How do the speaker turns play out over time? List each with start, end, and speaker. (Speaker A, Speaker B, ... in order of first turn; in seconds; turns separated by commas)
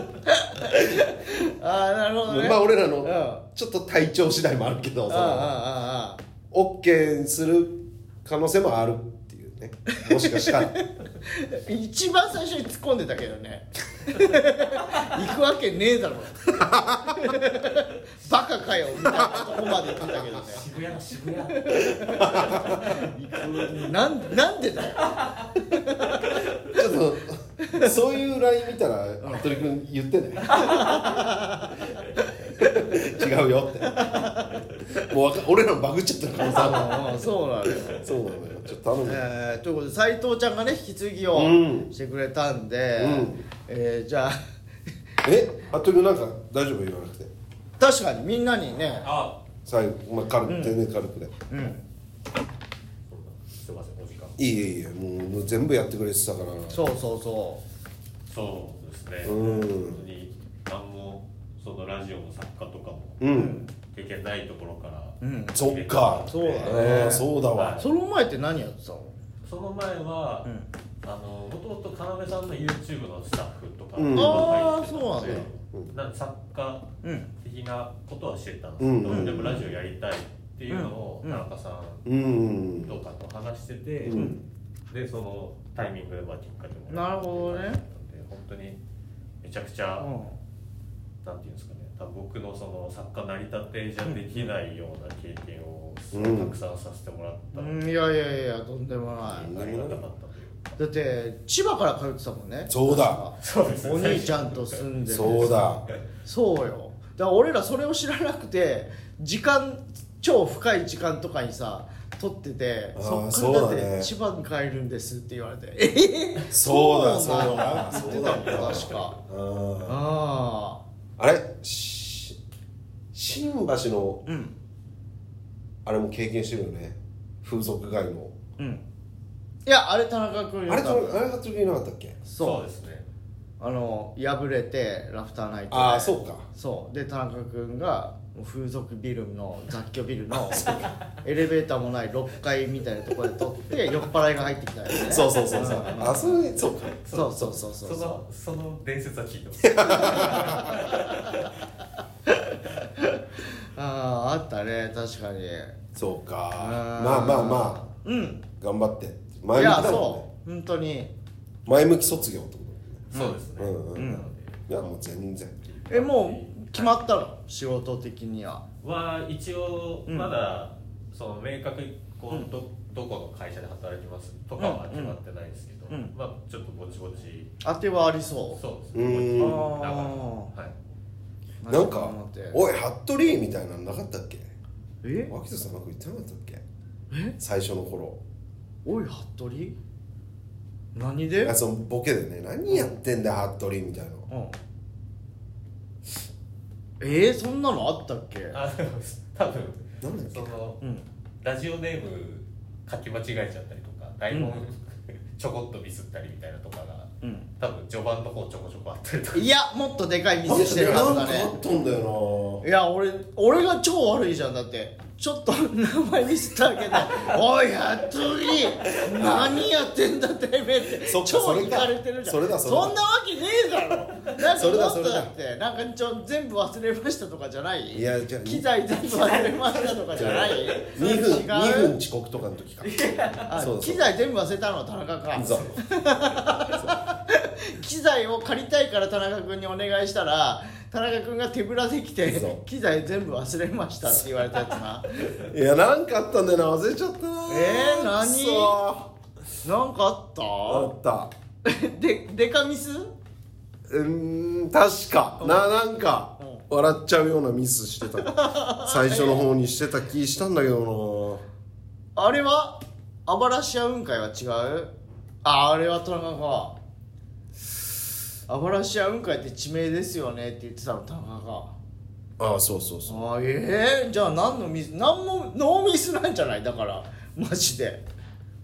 Speaker A: 0.2-3.4, Speaker B: 0.8-1.1, Speaker B: 2.2-5.6, Speaker A: 5.1-6.2, Speaker B: 6.5-10.7, Speaker A: 9.9-20.6, Speaker B: 16.5-17.4, Speaker B: 19.0-19.7, Speaker C: 20.1-23.1, Speaker A: 21.5-26.4, Speaker B: 22.1-23.0, Speaker B: 26.6-30.5, Speaker A: 27.6-27.9, Speaker A: 29.2-29.5, Speaker A: 30.5-32.2, Speaker B: 32.5-34.2, Speaker A: 33.9-34.6, Speaker B: 34.9-37.0, Speaker A: 36.4-38.0, Speaker B: 37.7-39.2, Speaker A: 39.0-44.4, Speaker B: 41.3-41.9, Speaker B: 43.0-43.4, Speaker B: 45.2-47.3, Speaker A: 47.8-49.1, Speaker C: 49.0-49.4, Speaker B: 49.6-51.7, Speaker A: 50.5-50.8, Speaker A: 51.5-51.8, Speaker C: 53.1-54.4, Speaker B: 54.4-56.9, Speaker A: 56.7-57.6, Speaker C: 58.3-67.8, Speaker B: 59.2-60.0, Speaker B: 63.2-63.5, Speaker A: 63.3-63.7, Speaker A: 65.2-65.6, Speaker B: 65.5-67.8, Speaker A: 66.3-67.3, Speaker A: 67.8-69.1, Speaker C: 69.4-70.5, Speaker C: 71.0-82.1, Speaker B: 74.0-74.5, Speaker A: 74.1-75.5, Speaker A: 77.0-77.3, Speaker B: 78.8-79.7, Speaker A: 79.1-79.5, Speaker A: 80.7-81.4, Speaker B: 82.0-82.9, Speaker C: 82.8-84.2, Speaker B: 84.0-84.4, Speaker A: 84.1-84.4, Speaker C: 84.9-88.8, Speaker A: 86.9-87.8, Speaker C: 89.4-90.1, Speaker A: 90.0-90.3, Speaker C: 91.2-97.8, Speaker B: 96.1-96.5, Speaker A: 97.5-99.5, Speaker C: 99.2-100.8, Speaker B: 99.4-100.0, Speaker A: 100.8-105.7, Speaker B: 102.7-103.2, Speaker C: 103.4-104.8, Speaker B: 105.1-105.8, Speaker A: 106.2-119.2, Speaker B: 112.9-114.1, Speaker B: 116.5-120.0, Speaker C: 117.3-119.2, Speaker A: 119.8-120.8, Speaker B: 121.2-122.4, Speaker B: 123.1-124.2, Speaker A: 124.2-124.5, Speaker B: 125.8-128.4, Speaker A: 128.6-128.8, Speaker A: 129.7-131.2, Speaker B: 130.7-132.2, Speaker A: 132.3-132.6, Speaker C: 132.4-133.1, Speaker A: 133.6-146.3, Speaker B: 135.7-136.4, Speaker B: 144.9-146.9, Speaker C: 145.6-151.5, Speaker A: 147.1-148.2, Speaker B: 149.6-150.7, Speaker A: 149.8-151.5, Speaker A: 152.3-155.8, Speaker B: 155.9-157.9, Speaker A: 156.6-158.4, Speaker B: 158.6-160.2, Speaker A: 159.5-161.1, Speaker B: 161.7-164.1, Speaker A: 163.1-163.4, Speaker C: 163.1-164.7, Speaker A: 163.9-164.3, Speaker B: 164.7-165.6, Speaker C: 165.6-167.0, Speaker A: 165.9-168.6, Speaker C: 168.8-177.5, Speaker A: 170.1-170.3, Speaker A: 174.6-175.2, Speaker A: 177.6-178.6, Speaker C: 178.5-180.7, Speaker B: 178.9-179.6, Speaker A: 179.4-180.5, Speaker A: 181.6-182.6, Speaker B: 181.7-184.5, Speaker A: 185.0-185.3, Speaker B: 185.3-186.6, Speaker A: 187.1-187.3, Speaker B: 187.4-188.2, Speaker A: 188.8-189.8, Speaker A: 190.9-191.6, Speaker B: 191.4-194.2, Speaker A: 192.7-192.9, Speaker A: 194.3-194.5, Speaker A: 197.0-198.6, Speaker C: 198.5-200.8, Speaker B: 200.0-200.5, Speaker C: 201.4-209.5, Speaker A: 204.3-204.6, Speaker A: 207.2-207.5, Speaker A: 209.3-211.5, Speaker B: 210.5-212.6, Speaker A: 212.6-231.9, Speaker B: 219.1-219.6, Speaker B: 221.0-223.0, Speaker B: 224.5-225.3, Speaker B: 227.9-228.7, Speaker B: 230.2-234.1, Speaker C: 232.9-233.4, Speaker A: 233.4-245.5, Speaker B: 235.3-235.7, Speaker C: 235.5-236.4, Speaker B: 242.2-242.6, Speaker B: 245.4-249.1, Speaker A: 247.5-248.8, Speaker A: 249.6-250.9, Speaker B: 250.7-251.3, Speaker A: 251.6-253.1, Speaker B: 253.9-261.4, Speaker A: 255.4-255.7, Speaker A: 256.4-256.7, Speaker A: 258.2-259.4, Speaker A: 262.1-264.9, Speaker A: 265.4-266.8, Speaker A: 268.5-271.7, Speaker B: 272.4-273.2, Speaker A: 273.1-278.0